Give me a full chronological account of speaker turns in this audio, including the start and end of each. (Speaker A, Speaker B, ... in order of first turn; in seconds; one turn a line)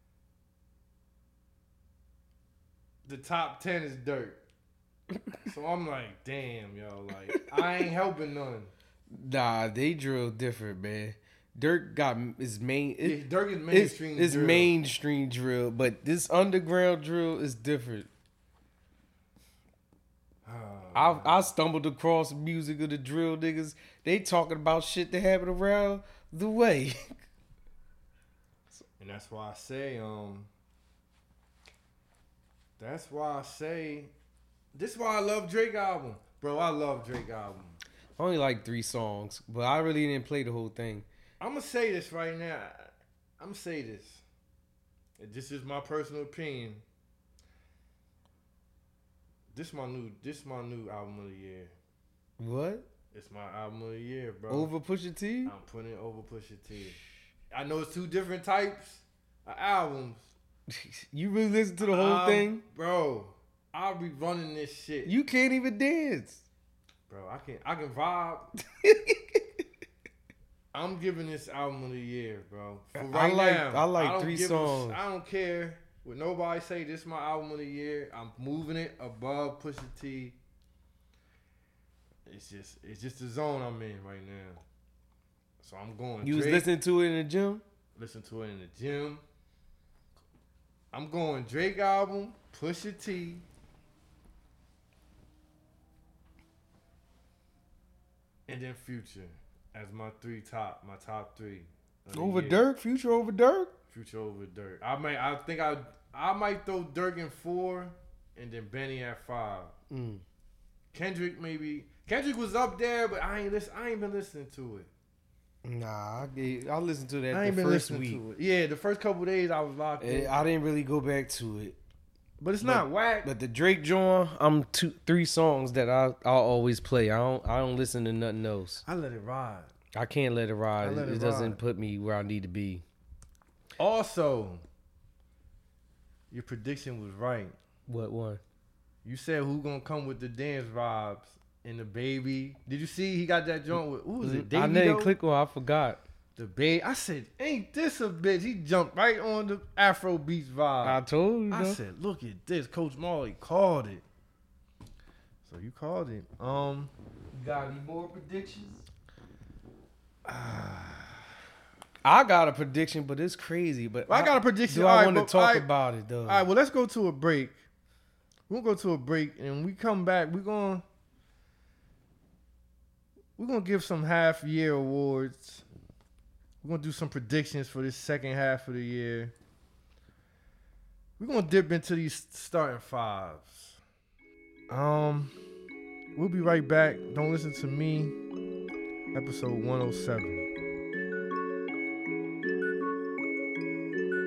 Speaker A: 3.0-4.4
Speaker A: 5.4-8.7
Speaker B: 9.1-18.1
Speaker A: 13.0-14.7
Speaker A: 20.4-21.5
Speaker B: 20.9-27.2
Speaker A: 29.0-30.5
Speaker A: 32.8-34.1
Speaker A: 34.7-37.8
Speaker B: 38.2-41.1
Speaker A: 41.4-44.2
Speaker A: 45.2-46.8
Speaker A: 49.5-51.7
Speaker B: 52.4-52.9
Speaker A: 53.1-54.7
Speaker B: 54.5-55.5
Speaker A: 55.5-57.0
Speaker A: 57.5-60.3
Speaker B: 60.7-62.6
Speaker A: 61.8-65.2
Speaker B: 65.0-66.4
Speaker A: 67.1-68.5
Speaker B: 68.8-69.5
Speaker A: 70.7-80.4
Speaker B: 73.0-75.0
Speaker A: 82.2-84.6
Speaker A: 85.6-86.7
Speaker B: 86.2-87.6
Speaker A: 88.0-89.2
Speaker A: 90.9-93.5
Speaker A: 98.5-102.6
Speaker B: 102.1-103.7
Speaker A: 103.9-109.7
Speaker B: 109.9-110.2
Speaker A: 110.9-114.9
Speaker B: 115.6-118.2
Speaker A: 117.3-120.4
Speaker B: 120.0-121.8
Speaker A: 122.4-123.3
Speaker B: 122.6-128.8
Speaker A: 128.8-129.7
Speaker B: 129.9-132.8
Speaker A: 130.8-131.6
Speaker A: 133.8-134.6
Speaker A: 136.3-137.6
Speaker B: 137.9-138.4
Speaker A: 139.0-145.2
Speaker B: 144.2-146.0
Speaker A: 146.4-154.0
Speaker B: 150.8-151.8
Speaker A: 155.4-156.9
Speaker B: 157.3-158.9
Speaker A: 160.2-161.2
Speaker B: 162.0-166.5
Speaker A: 164.1-165.7
Speaker A: 166.2-167.6
Speaker A: 168.5-170.8
Speaker A: 173.4-175.6
Speaker A: 176.6-179.3
Speaker A: 181.2-183.8
Speaker A: 184.7-185.3
Speaker A: 186.2-188.2
Speaker A: 189.1-190.5